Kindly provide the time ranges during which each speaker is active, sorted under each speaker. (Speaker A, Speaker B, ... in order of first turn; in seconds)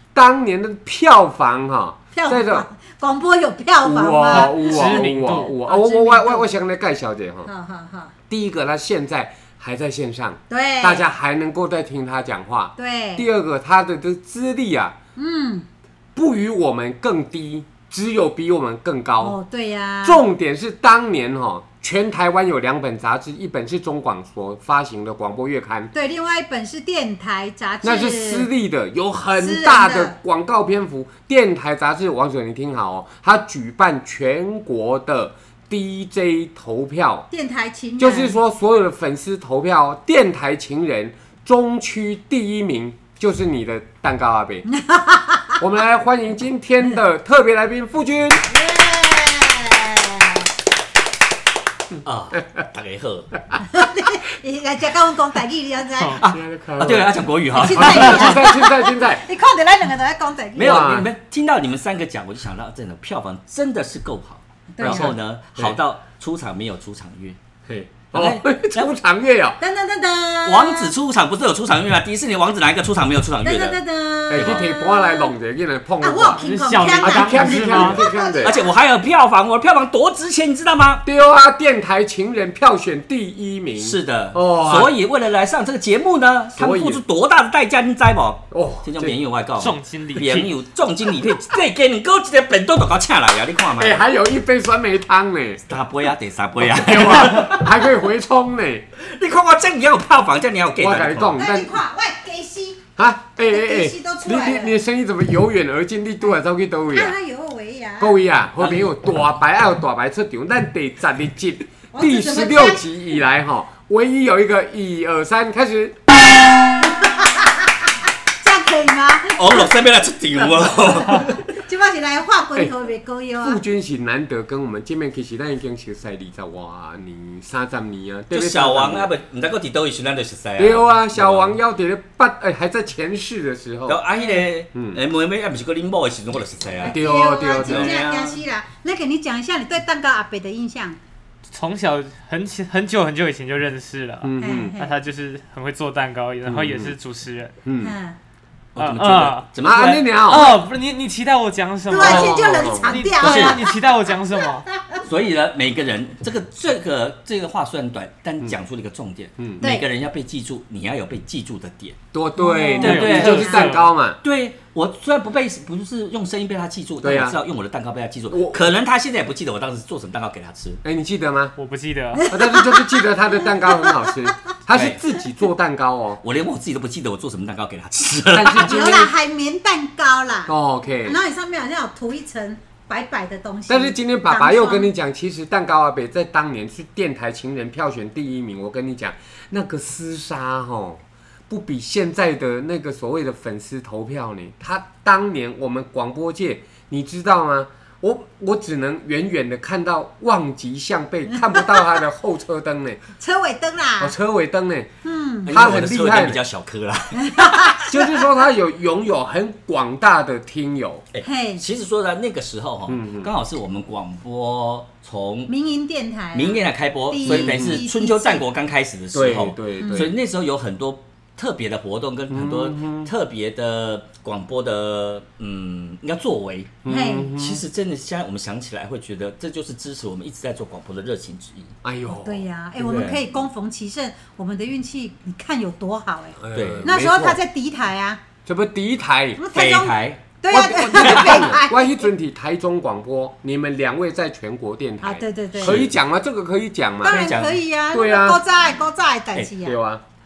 Speaker A: 0.1-2.6, 3.8-7.5, 8.3-14.9, 16.1-19.4, 20.0-25.9, 27.8-37.3, 38.0-44.7, 45.6-48.5, 56.2-59.2, 60.6-61.1, 64.8-65.8, 67.7-69.6, 74.3-76.4, 76.9-78.6, 81.0-84.9, 86.6-87.0, 88.5-89.2, 93.8-95.6, 96.6-98.8, 100.8-101.8, 103.0-107.1, 108.0-116.0, 123.4-129.1, 130.6-134.0, 134.7-135.0, 136.8-137.9, 144.2-144.7, 146.4-146.9, 147.6-147.9, 149.6-150.6, 151.9-152.9, 162.1-164.2, 167.0-167.4, 168.3-168.6, 170.8-171.6, 172.3-176.2, 178.3-179.1, 180.5-181.2, 183.7-203.0, 204.0-204.9, 205.5-206.4, 207.9-211.0, 212.9-213.3, 217.2-217.8, 219.1-220.1, 222.3-223.1, 226.8-227.6, 231.8-232.4, 236.4-237.4, 238.4-239.4, 240.5-247.2, 247.9-248.4, 249.6-250.0
Speaker B: 2.1-6.5, 7.5-8.1, 10.5-11.1, 12.8-13.2, 15.2-15.7, 19.2-20.2, 25.9-28.5, 29.4-30.1, 37.3-38.4, 44.7-45.6, 48.5-50.5, 53.7-56.2, 57.5-60.9, 64.7-65.1, 69.6-70.9, 73.4-75.3, 76.0-78.7, 101.2-102.8, 103.4-104.8, 106.9-108.2, 111.9-112.8, 116.8-117.7, 118.4-119.7, 120.5-123.6, 136.8-141.0, 144.4-145.0, 147.8-148.2, 151.9-155.0, 159.6-159.8, 162.3-163.7, 172.1-173.0, 173.7-174.0, 178.6-180.5, 181.0-184.9, 203.2-204.1, 205.0-205.6, 207.2-208.1, 211.2-211.6, 215.5-218.4, 219.8-220.1, 226.8-227.3, 232.1-238.2, 239.4-242.0, 245.0-245.8, 247.0-249.8
Speaker C: 4.3-5.5, 76.4-78.0, 89.6-90.5, 141.5-147.5, 148.8-149.5, 150.3-154.7, 162.8-163.9, 171.6-172.3
Speaker D: 52.0-53.3, 56.2-58.4, 60.5-67.4, 68.1-68.9, 70.4-73.8, 74.3-74.6, 78.4-81.0, 83.8-94.0, 95.7-97.9, 99.0-101.4, 108.6-108.9, 119.3-121.5, 128.3-131.6, 133.9-137.0, 137.6-138.4, 148.8-150.1, 153.2-153.6, 155.0-162.0, 162.8-170.8, 174.7-175.0, 176.2-178.8, 205.4-207.9, 211.1-215.5, 216.3-231.7, 232.8-233.2, 236.5-236.9, 239.5-240.2, 240.9-241.4, 245.5-245.9, 247.0-247.6